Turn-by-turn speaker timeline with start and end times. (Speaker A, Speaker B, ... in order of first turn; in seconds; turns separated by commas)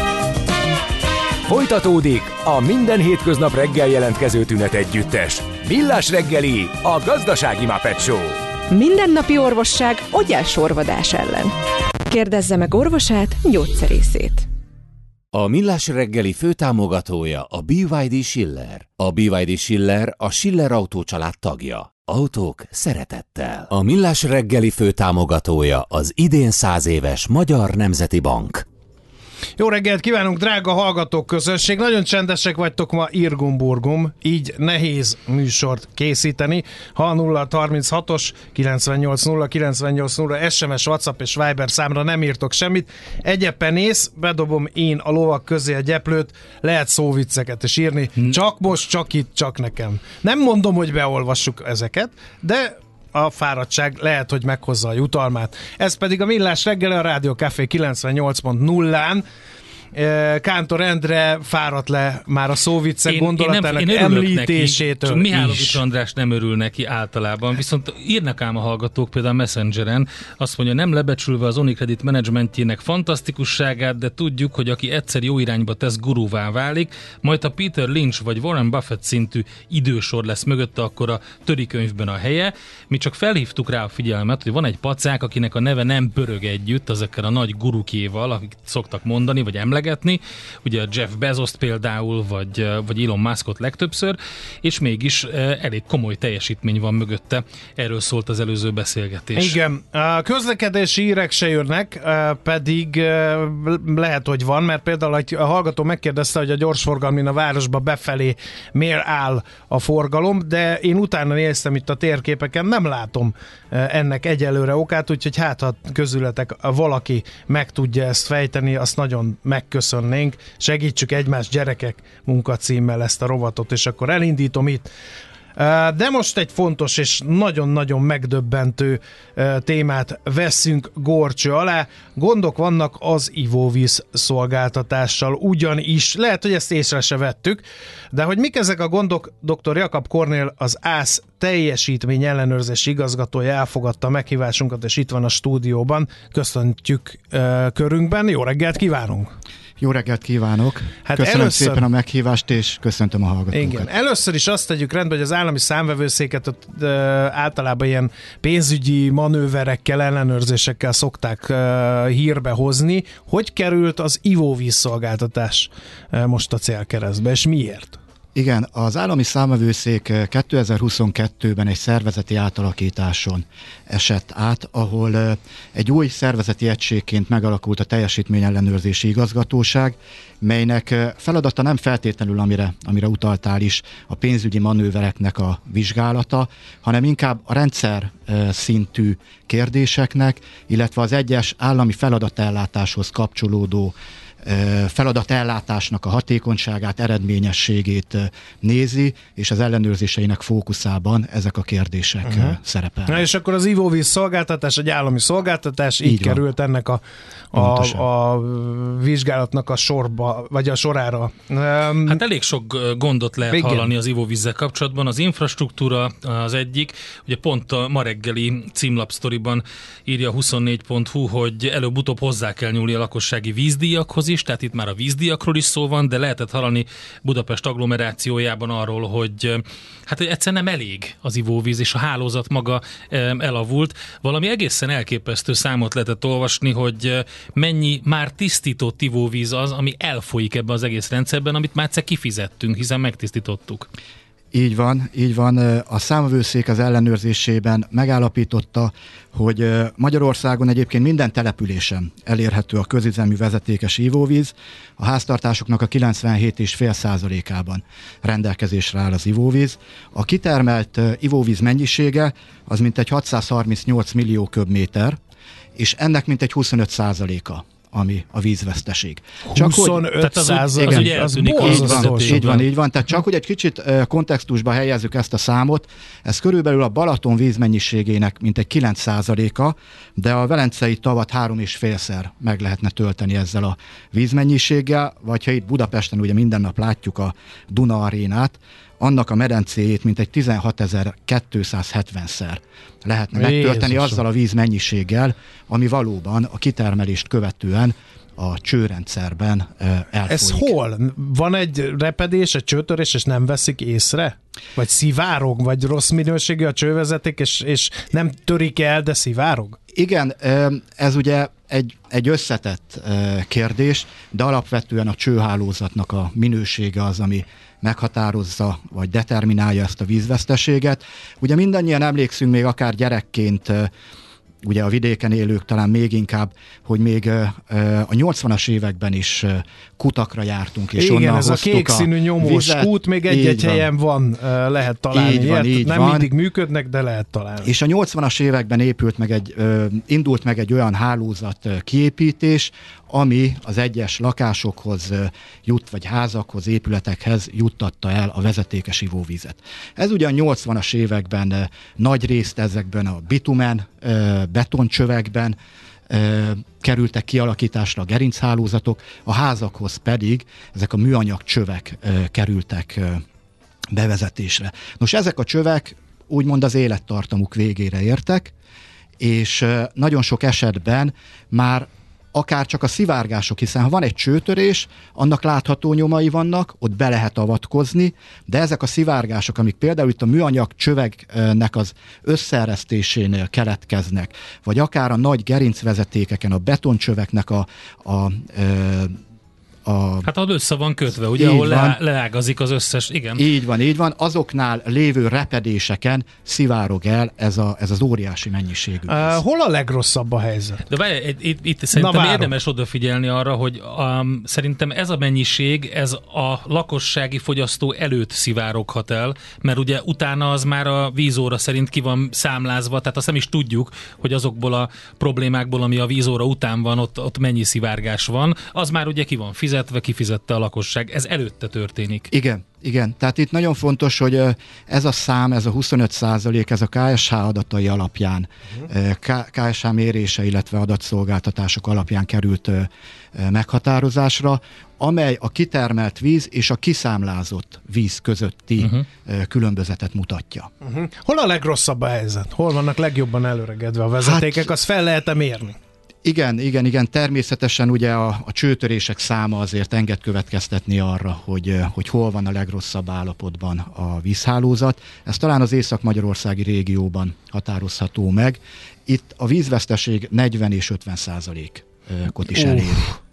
Speaker A: 1.5-8.4, Speaker B: 8.7-11.5, Speaker B: 12.1-14.5, Speaker C: 15.3-28.6, Speaker D: 29.6-59.2, Speaker D: 59.9-65.8, Speaker E: 63.1-99.5, Speaker D: 99.3-124.9, Speaker D: 125.6-149.3, Speaker F: 149.8-153.9, Speaker D: 151.0-151.8, Speaker D: 153.5-168.0, Speaker F: 168.3-203.3, Speaker D: 202.3-202.5, Speaker D: 203.1-207.0, Speaker F: 206.0-206.4, Speaker D: 207.5-212.2, Speaker F: 207.5-208.1, Speaker E: 212.1-243.9, Speaker D: 213.5-213.9, Speaker F: 244.5-265.2, Speaker F: 265.8-270.1, Speaker D: 269.5-272.6, Speaker E: 270.2-272.7, Speaker F: 270.7-300.7, Speaker D: 293.4-294.2, Speaker D: 300.3-309.8, Speaker F: 309.9-323.9, Speaker F: 324.6-333.9, Speaker D: 331.0-337.7, Speaker F: 335.1-336.3, Speaker F: 337.6-355.6, Speaker F: 356.1-363.2, Speaker F: 363.9-368.5, Speaker F: 369.2-389.2, Speaker F: 389.9-390.3, Speaker E: 390.2-393.4, Speaker F: 391.4-392.0, Speaker F: 393.4-399.4, Speaker D: 399.1-400.8, Speaker E: 400.9-422.3, Speaker D: 401.9-402.5, Speaker F: 422.3-440.7, Speaker E: 438.8-439.1, Speaker D: 440.8-445.8, Speaker F: 444.2-444.7, Speaker F: 446.2-463.2, Speaker D: 462.5-463.1